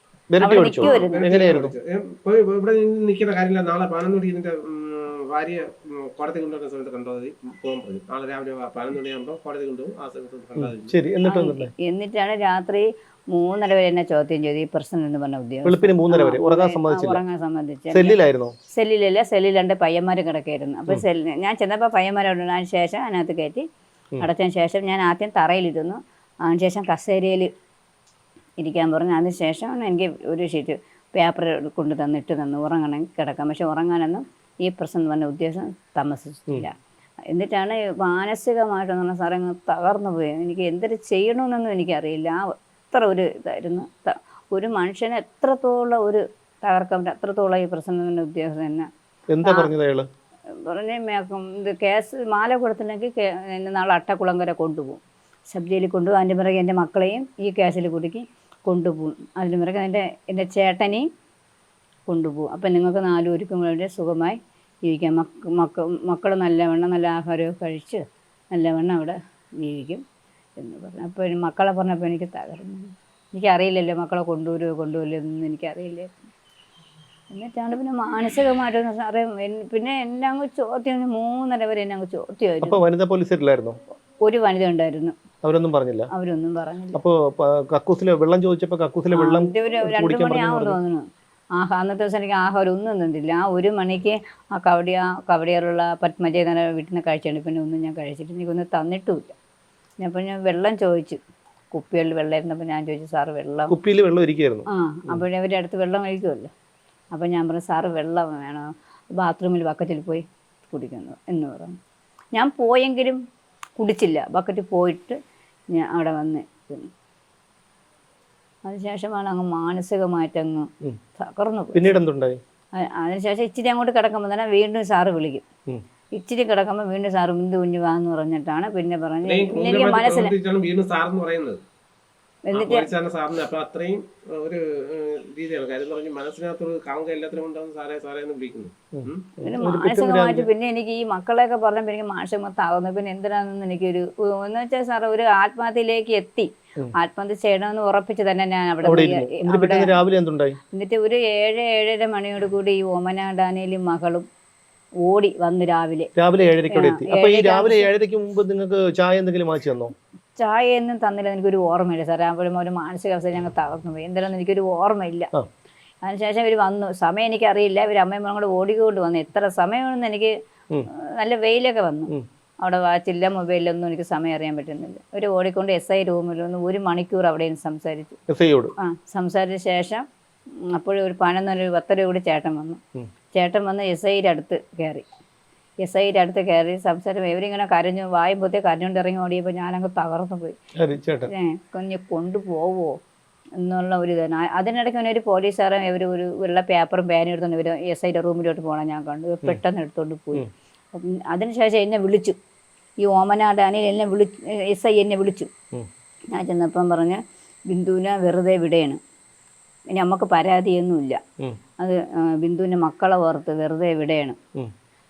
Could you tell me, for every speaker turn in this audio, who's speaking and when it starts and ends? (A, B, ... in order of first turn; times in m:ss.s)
0:00.3-0:01.7 A
0:00.4-0:01.5 B
0:00.8-0:10.9 C
0:10.6-0:11.7 A
0:11.3-0:18.2 B
0:15.6-0:17.2 A
0:17.9-0:18.5 A
0:18.7-0:23.6 B
0:24.2-0:27.5 B
0:28.6-0:36.7 B
0:37.3-0:48.9 B
0:49.3-0:50.1 A
0:49.4-0:49.7 B
0:50.5-1:01.1 B
1:02.1-1:10.0 B
1:10.6-1:16.1 B
1:17.3-1:22.8 B
1:22.6-1:23.8 A
1:24.2-1:25.1 B
1:25.4-1:26.1 A
1:26.1-1:27.0 B
1:26.9-1:30.8 A
1:29.1-1:39.3 B
1:40.0-1:41.2 B
1:41.7-1:43.7 B
1:43.7-1:45.2 A
1:44.7-1:46.5 B
1:47.1-1:51.8 B
1:52.3-1:53.2 B
1:53.8-1:55.2 B
1:55.7-1:56.9 B
1:58.6-2:01.9 B
2:01.7-2:02.4 A
2:02.8-2:05.4 B
2:06.1-2:10.3 B
2:09.2-2:11.6 C
2:12.5-2:12.9 B
2:12.5-2:19.3 C
2:19.0-2:20.5 A
2:19.4-2:29.9 B
2:28.8-2:30.6 A
2:30.7-2:34.2 B
2:35.0-2:36.1 B
2:36.2-2:39.9 A
2:36.7-2:37.9 B
2:40.4-2:45.3 B
2:46.0-2:50.3 B
2:50.9-2:58.2 B
2:58.3-2:58.7 A
2:58.8-3:00.0 B
3:00.7-3:02.8 B
3:03.3-3:05.0 B
3:05.8-3:10.6 B
3:10.8-3:11.3 A
3:11.3-3:13.0 B
3:13.6-3:22.4 B
3:23.0-3:25.5 B
3:26.3-3:29.0 B
3:29.9-3:31.2 B
3:31.8-3:34.4 B